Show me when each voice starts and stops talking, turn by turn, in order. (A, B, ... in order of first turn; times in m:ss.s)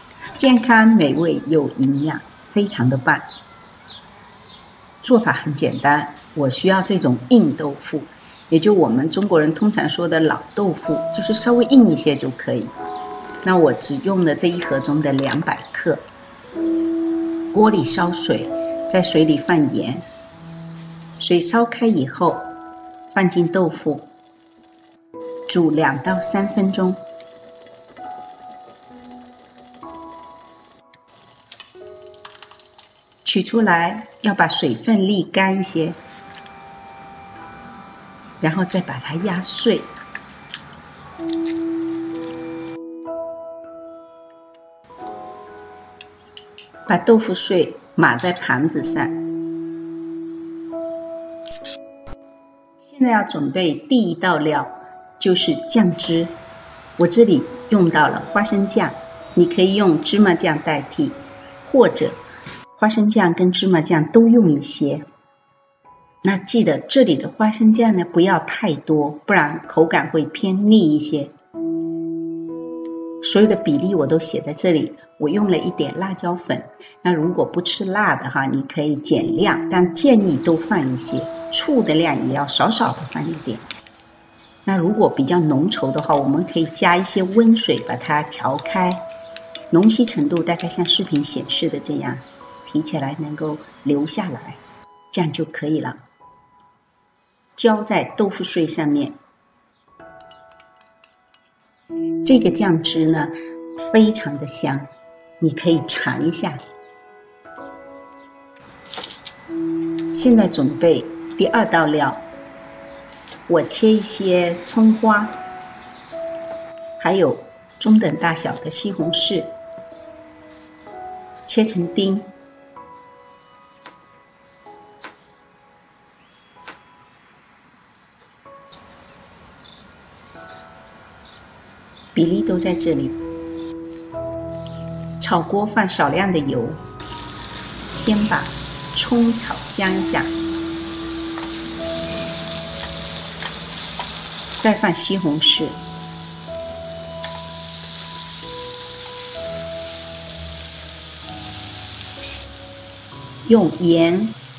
0:00.4-0:03.3 A
0:05.0-0:12.8 A
0:13.4-0:16.1 A
0:17.5-0:20.1 A
0:21.2-0:22.5 A
0:23.1-0:24.1 A
0:25.5-0:27.0 A
0:33.2-0:36.0 A
0:38.4-0:39.9 A
0:46.9-0:49.2 A
0:52.8-0:56.4 A
0:57.0-1:02.2 A
1:02.8-1:05.0 A
1:06.2-1:11.3 A
1:13.2-1:23.7 A
1:24.6-1:29.0 A
1:29.7-1:34.6 A
1:35.1-1:36.0 A
1:37.6-1:39.2 A
1:42.2-1:44.9 A
1:45.4-1:46.6 A
1:50.1-1:52.2 A
1:53.5-1:55.4 A
1:57.0-1:59.5 A
2:01.5-2:02.3 A
2:12.1-2:13.2 A
2:15.2-2:16.8 A
2:17.9-2:20.3 A
2:24.6-2:25.8 A
2:33.4-2:34.4 A